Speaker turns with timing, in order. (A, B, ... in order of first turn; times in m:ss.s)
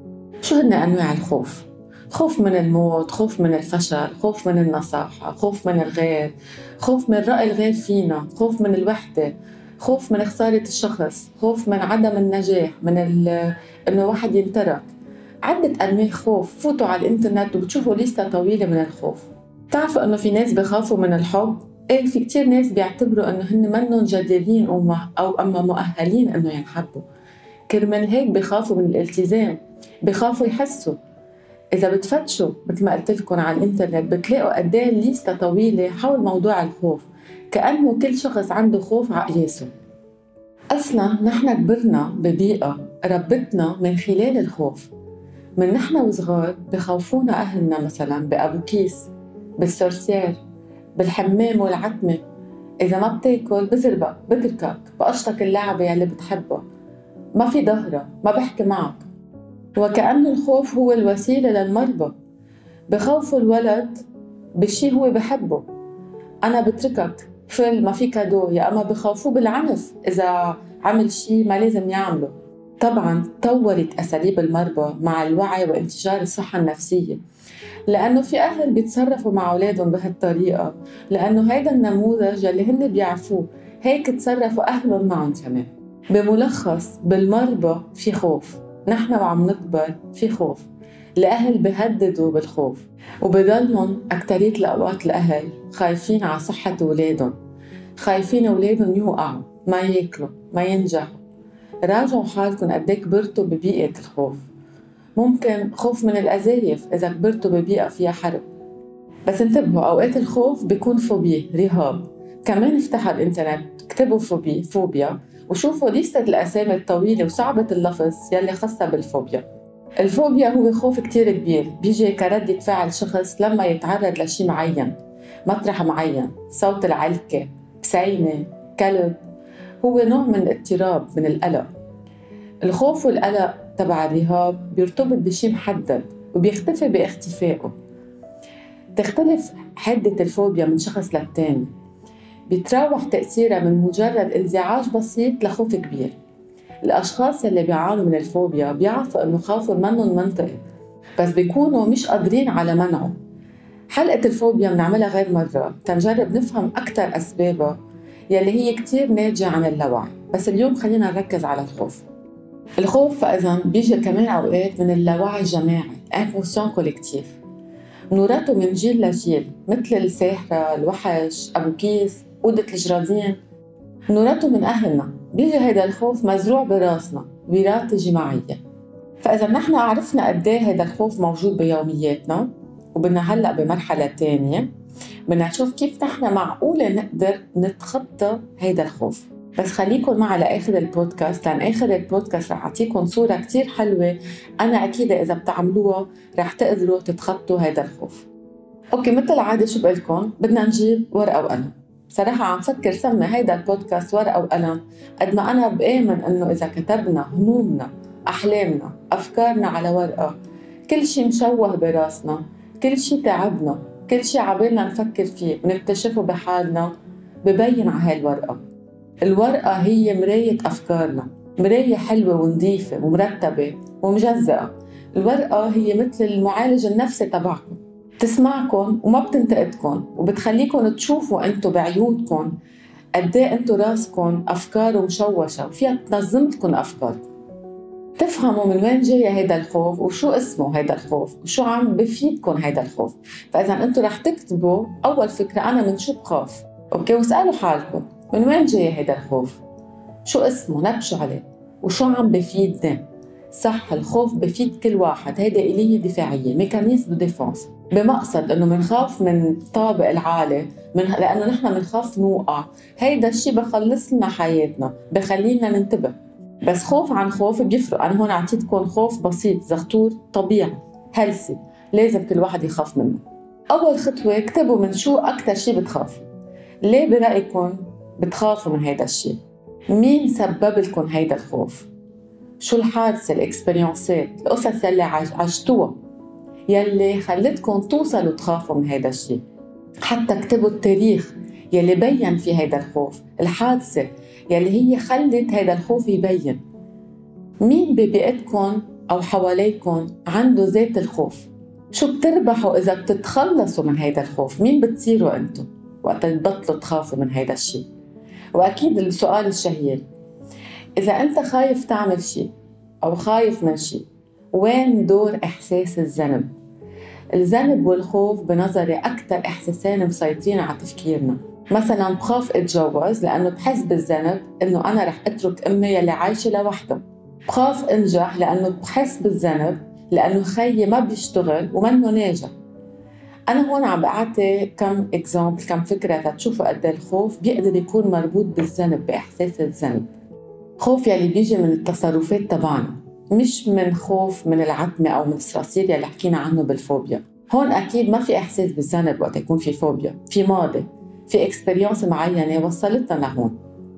0:00.4-0:14.9 A
0:15.4-0:27.0 A
0:27.7-0:31.0 A
0:31.7-0:39.7 A
0:40.7-0:44.9 A
0:45.6-0:50.4 A
0:50.9-0:52.2 A
0:52.8-0:56.6 A
0:57.3-0:59.0 A
0:59.8-1:02.1 A
1:02.9-1:04.0 A
1:04.6-1:05.6 A
1:06.4-1:17.2 A
1:17.9-1:37.3 A
1:38.0-1:41.2 A
1:41.8-1:44.4 A
1:45.2-1:48.4 A
1:49.2-1:59.4 A
2:00.0-2:09.2 A
2:09.8-2:11.7 A
2:12.6-2:17.7 A
2:19.0-2:21.7 A
2:22.5-2:26.2 A
2:26.8-2:30.6 A
2:31.2-2:33.2 A
2:33.9-2:37.8 A
2:38.3-2:42.0 A
2:42.8-2:47.4 A
2:48.1-2:53.4 A
2:54.1-2:58.6 A
2:59.2-3:04.7 A
3:05.3-3:18.3 A
3:19.0-3:30.3 A
3:30.9-3:38.6 A
3:39.2-3:52.5 A
3:53.2-3:57.2 A
3:58.2-4:09.6 A
4:10.2-4:36.3 A
4:36.8-4:39.4 A
4:39.9-4:41.9 A
4:42.6-4:46.0 A
4:46.7-4:49.4 A
4:50.0-4:56.6 A
4:57.6-5:07.8 A
5:08.5-5:10.0 A
5:11.0-5:12.5 A
5:13.0-5:16.5 A
5:17.3-5:32.5 A
5:33.5-5:40.1 A
5:40.8-5:53.6 A